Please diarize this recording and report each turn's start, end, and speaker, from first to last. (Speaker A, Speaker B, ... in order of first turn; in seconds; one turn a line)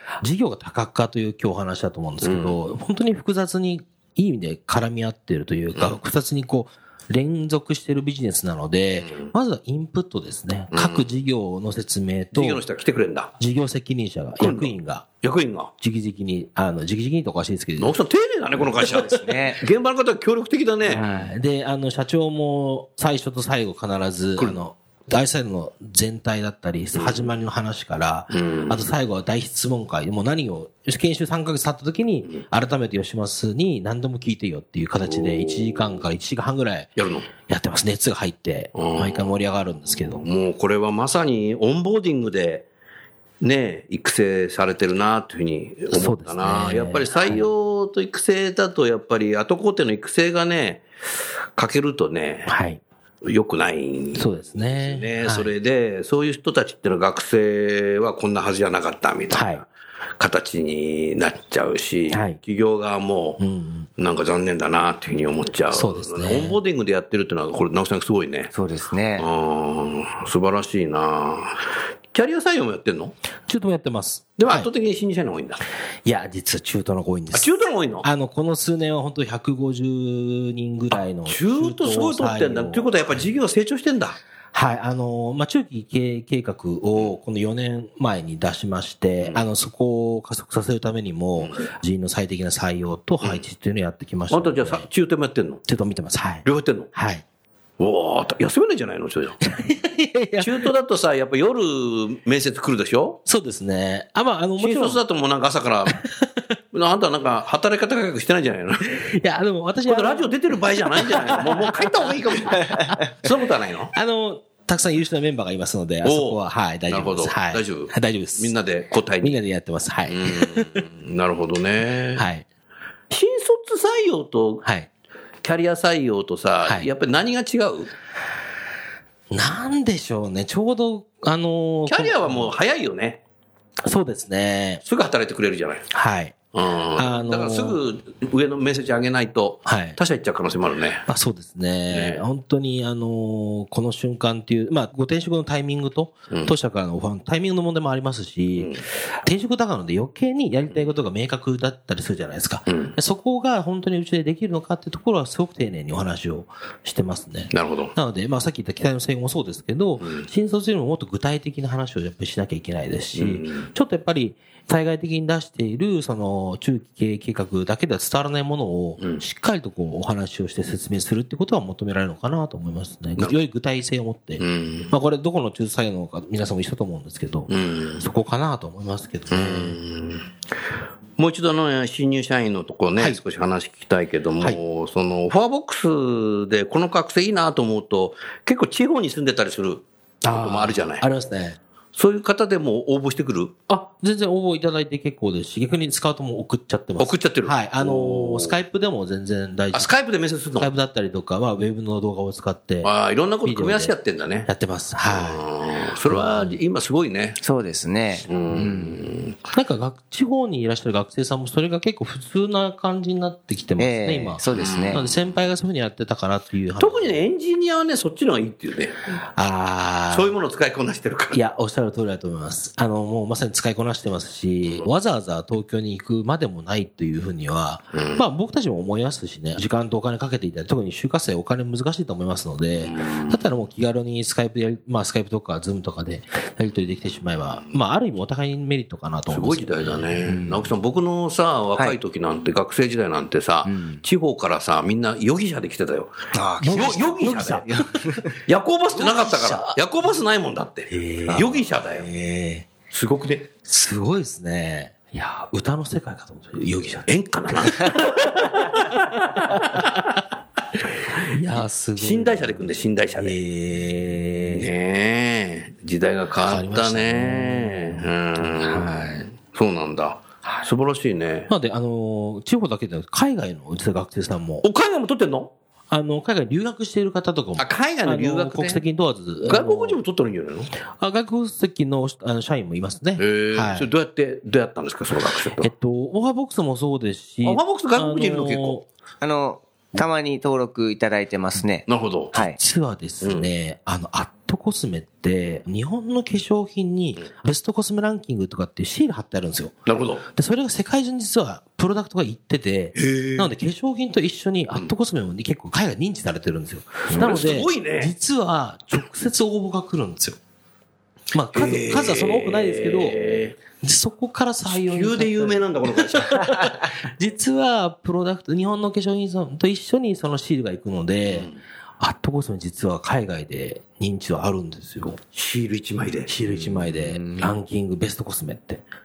Speaker A: 0.2-12.6
Speaker B: 2.2-2.6
Speaker B: 9.0-9.3
Speaker B: 10.7-11.1
Speaker B: 12.3-13.3
Speaker A: 13.4-15.1
Speaker B: 14.4-15.7
Speaker A: 15.8-18.0
Speaker B: 17.8-21.1
Speaker C: 18.7-19.6
Speaker A: 18.8-19.2
Speaker A: 20.9-36.9
Speaker C: 20.9-21.3
Speaker B: 26.9-27.3
Speaker B: 28.3-28.9
Speaker B: 35.0-36.0
Speaker B: 37.0-37.3
Speaker A: 37.5-40.3
Speaker B: 38.8-39.4
Speaker B: 40.0-42.6
Speaker B: 43.4-50.9
Speaker A: 45.9-47.5
Speaker B: 51.6-52.5
Speaker A: 52.5-52.8
Speaker B: 53.2-59.6
Speaker A: 54.1-55.5
Speaker A: 59.3-59.6
Speaker B: 60.2-63.4
Speaker A: 62.1-62.4
Speaker A: 63.4-63.9
Speaker B: 64.0-68.5
Speaker A: 65.7-66.6
Speaker C: 68.5-69.3
Speaker B: 69.2-73.1
Speaker A: 73.5-74.7
Speaker B: 74.4-75.6
Speaker A: 76.0-83.2
Speaker B: 77.3-78.1
Speaker B: 81.3-84.2
Speaker A: 84.5-94.9
Speaker B: 91.4-91.7
Speaker B: 94.3-95.6
Speaker A: 95.7-97.2
Speaker B: 96.5-96.9
Speaker B: 97.8-99.4
Speaker A: 99.5-100.7
Speaker B: 100.4-103.2
Speaker A: 103.3-105.0
Speaker B: 104.6-106.0
Speaker A: 105.9-106.4
Speaker B: 106.7-109.0
Speaker A: 108.9-112.0
Speaker B: 109.9-113.9
Speaker A: 113.9-118.5
Speaker B: 116.0-119.4
Speaker A: 119.2-120.8
Speaker B: 120.1-122.2
Speaker A: 122.1-122.5
Speaker B: 123.1-124.6
Speaker A: 124.6-124.9
Speaker B: 125.4-127.9
Speaker A: 126.6-126.9
Speaker A: 129.3-132.5
Speaker B: 131.9-133.2
Speaker A: 133.8-134.8
Speaker B: 134.9-135.8
Speaker A: 135.9-136.4
Speaker B: 136.5-141.1
Speaker A: 137.0-137.8
Speaker A: 139.7-140.0
Speaker A: 141.1-179.8
Speaker B: 141.9-142.2
Speaker B: 152.7-152.9
Speaker B: 157.5-157.9
Speaker B: 160.0-160.3
Speaker B: 163.2-163.7
Speaker B: 174.4-174.9
Speaker B: 177.5-178.1
Speaker B: 179.3-180.3
Speaker B: 181.2-191.1
Speaker A: 190.2-191.6
Speaker B: 191.9-193.5
Speaker A: 193.7-199.9
Speaker B: 197.0-198.6
Speaker B: 199.7-200.7
Speaker A: 200.6-202.9
Speaker B: 202.8-204.5
Speaker A: 203.4-203.9
Speaker A: 204.5-205.5
Speaker B: 205.1-207.4
Speaker A: 206.1-206.6
Speaker C: 207.4-209.0
Speaker B: 208.3-209.4
Speaker A: 209.5-217.2
Speaker C: 213.8-215.0
Speaker B: 214.5-215.1
Speaker B: 216.8-219.0
Speaker A: 219.4-220.3
Speaker B: 220.1-221.4
Speaker A: 221.3-240.1
Speaker B: 227.9-228.2
Speaker B: 232.8-233.4
Speaker B: 239.3-246.2
Speaker C: 240.3-240.7
Speaker C: 243.6-244.0
Speaker C: 246.3-248.3
Speaker A: 246.6-248.1
Speaker B: 246.7-247.6
Speaker B: 248.5-252.1
Speaker A: 249.0-249.8
Speaker A: 250.9-252.7
Speaker B: 252.9-253.5
Speaker A: 253.7-259.8
Speaker B: 257.1-259.0
Speaker B: 259.5-260.1
Speaker A: 261.2-264.7
Speaker B: 262.0-263.4
Speaker B: 264.5-271.5
Speaker A: 266.4-269.3
Speaker A: 271.5-274.6
Speaker B: 274.6-275.5
Speaker A: 275.9-280.0
Speaker B: 277.6-278.8
Speaker B: 279.4-280.7
Speaker A: 281.0-283.9
Speaker B: 283.2-285.7
Speaker A: 285.6-288.9
Speaker B: 287.4-288.8
Speaker C: 289.2-292.6
Speaker B: 291.9-292.3
Speaker A: 292.4-299.8
Speaker B: 293.2-293.5
Speaker B: 299.9-300.2
Speaker A: 300.3-310.4
Speaker B: 303.0-303.5
Speaker B: 307.1-308.1
Speaker A: 311.3-313.2
Speaker B: 311.5-313.6
Speaker A: 313.8-321.5
Speaker B: 314.7-316.6
Speaker B: 321.2-321.6
Speaker A: 322.0-325.2
Speaker B: 325.3-326.3
Speaker A: 326.3-328.8
Speaker C: 326.7-327.4